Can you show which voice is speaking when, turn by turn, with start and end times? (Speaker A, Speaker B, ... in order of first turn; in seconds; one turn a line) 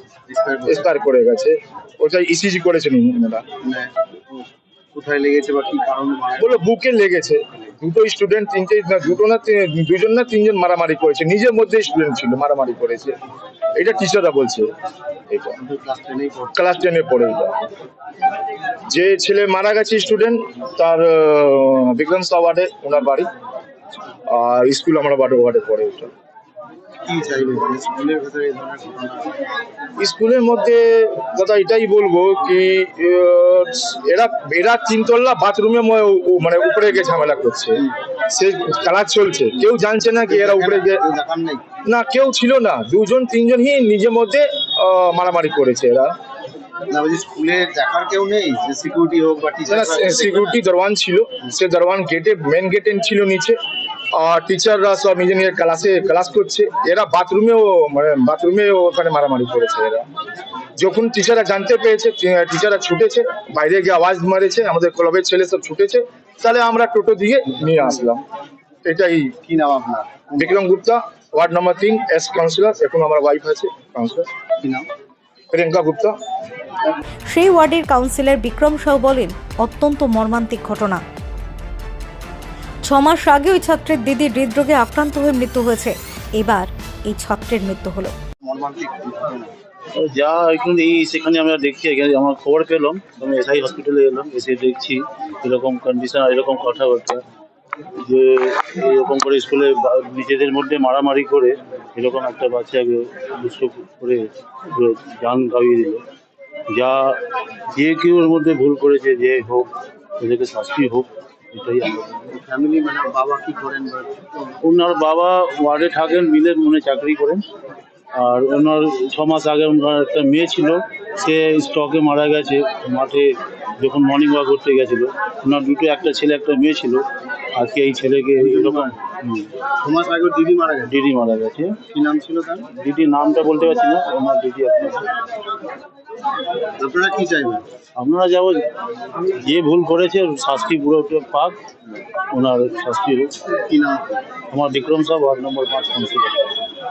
Speaker A: 0.3-0.9
Speaker B: 0.7-3.4
Speaker A: 3.6-6.7
Speaker B: 6.4-13.2
Speaker B: 13.8-14.7
Speaker B: 15.3-15.6
Speaker A: 15.6-16.5
Speaker B: 16.5-17.6
Speaker B: 18.9-23.3
Speaker B: 24.3-26.1
Speaker A: 27.1-29.4
Speaker B: 30.0-41.0
Speaker A: 40.2-41.6
Speaker B: 41.9-46.1
Speaker A: 46.9-50.6
Speaker B: 49.7-53.6
Speaker B: 54.1-60.0
Speaker B: 60.8-68.2
Speaker A: 67.6-68.0
Speaker B: 68.8-69.3
Speaker A: 69.4-70.5
Speaker B: 70.4-74.3
Speaker B: 75.5-76.2
Speaker C: 77.3-81.0
Speaker C: 82.9-88.1
Speaker A: 88.4-89.5
Speaker D: 90.0-97.2
Speaker D: 98.0-106.0
Speaker D: 106.7-107.2
Speaker D: 107.7-109.7
Speaker D: 110.2-112.3
Speaker A: 112.3-114.5
Speaker D: 114.6-117.4
Speaker D: 118.2-127.0
Speaker D: 127.5-129.5
Speaker A: 128.5-129.0
Speaker A: 129.8-130.9
Speaker D: 130.8-131.9
Speaker A: 131.9-132.7
Speaker D: 132.6-135.1
Speaker A: 136.8-137.6
Speaker D: 138.0-138.6
Speaker D: 139.4-141.6
Speaker D: 142.3-143.6
Speaker A: 143.6-144.1
Speaker D: 144.5-146.3